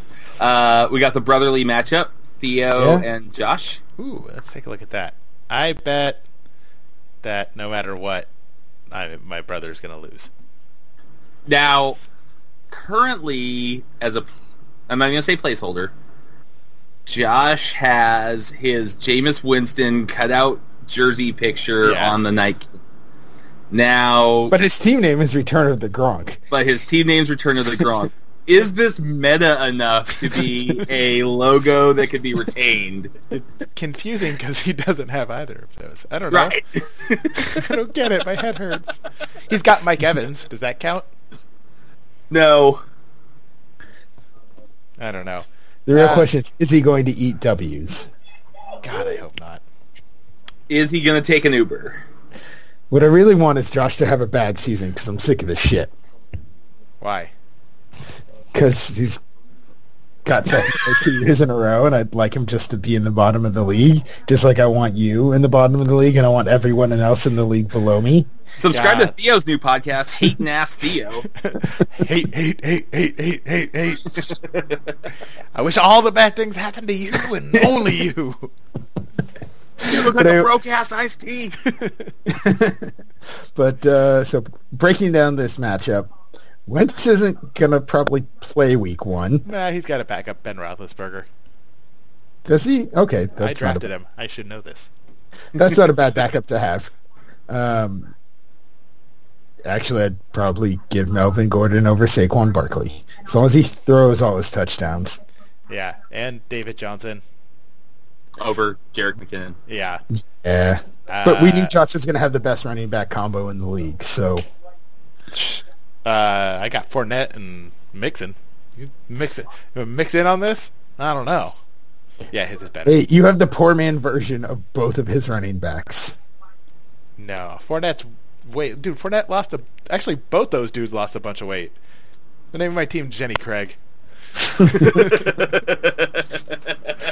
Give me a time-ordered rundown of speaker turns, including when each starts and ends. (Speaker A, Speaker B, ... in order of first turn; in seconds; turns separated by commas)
Speaker A: 0.4-3.8, Speaker B: 2.7-3.0, Speaker C: 4.0-6.2, Speaker C: 7.2-8.3, Speaker C: 8.9-10.3, Speaker A: 11.5-12.0, Speaker A: 12.7-14.3, Speaker A: 14.9-15.9, Speaker A: 17.1-22.7, Speaker C: 21.8-22.2, Speaker A: 23.7-24.6, Speaker B: 24.5-26.4, Speaker A: 26.5-33.1, Speaker C: 33.3-36.6, Speaker A: 36.3-37.7, Speaker C: 37.4-41.0, Speaker A: 42.3-42.8, Speaker C: 45.0-46.3, Speaker B: 45.9-48.1, Speaker C: 48.8-49.6, Speaker A: 50.7-52.0, Speaker B: 52.9-55.9, Speaker C: 57.0-57.3, Speaker B: 58.5-59.2, Speaker B: 60.2-68.3, Speaker A: 68.6-71.3, Speaker C: 68.7-69.1, Speaker C: 71.4-74.3, Speaker C: 75.5-78.5, Speaker A: 79.8-81.5, Speaker B: 79.8-80.5, Speaker C: 81.6-82.1, Speaker B: 82.2-82.9, Speaker B: 83.5-86.1, Speaker B: 86.7-89.4, Speaker C: 89.4-91.3, Speaker B: 92.5-93.9, Speaker C: 93.4-94.9, Speaker B: 95.5-96.9, Speaker B: 97.5-98.1, Speaker B: 99.6-105.2, Speaker C: 105.7-107.2, Speaker A: 108.4-109.6, Speaker C: 109.7-110.0, Speaker B: 110.4-114.5, Speaker C: 111.1-111.7, Speaker C: 115.3-121.6, Speaker C: 122.3-123.0, Speaker B: 122.8-126.2, Speaker C: 127.2-131.7, Speaker C: 132.5-133.8, Speaker C: 134.6-135.5, Speaker A: 134.7-136.3